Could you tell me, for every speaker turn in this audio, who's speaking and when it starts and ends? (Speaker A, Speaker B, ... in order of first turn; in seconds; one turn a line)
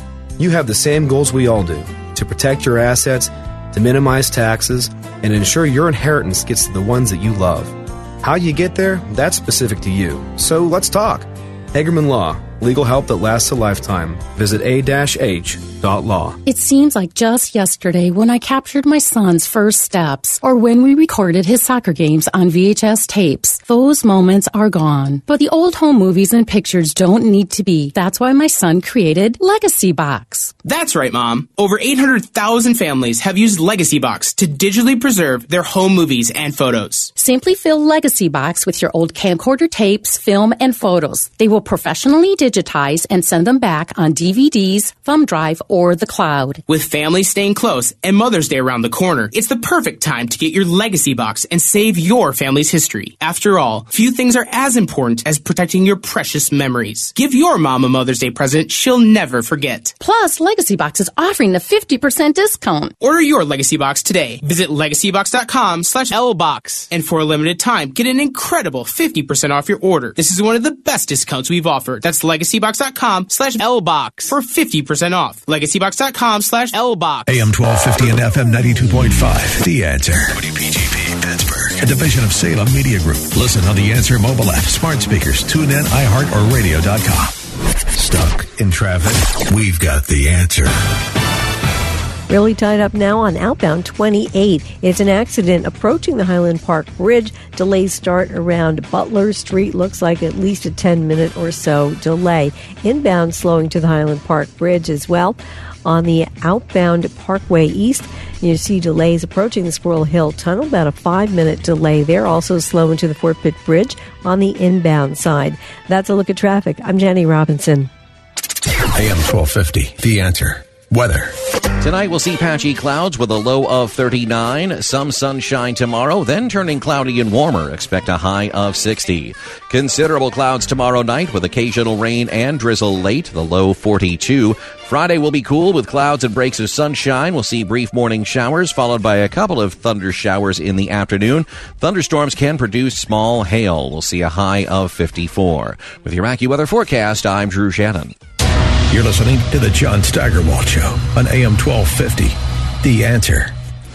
Speaker A: 0.4-16.4
Speaker B: 16.5-30.5
Speaker C: 30.6-37.1
Speaker B: 37.1-46.6
Speaker C: 46.7-60.0
Speaker B: 60.0-62.9
Speaker C: 63.0-77.5
Speaker D: 77.3-87.4
Speaker D: 87.9-90.8
Speaker E: 92.3-117.9
Speaker D: 118.9-121.3
Speaker F: 121.8-148.1
Speaker D: 148.9-153.5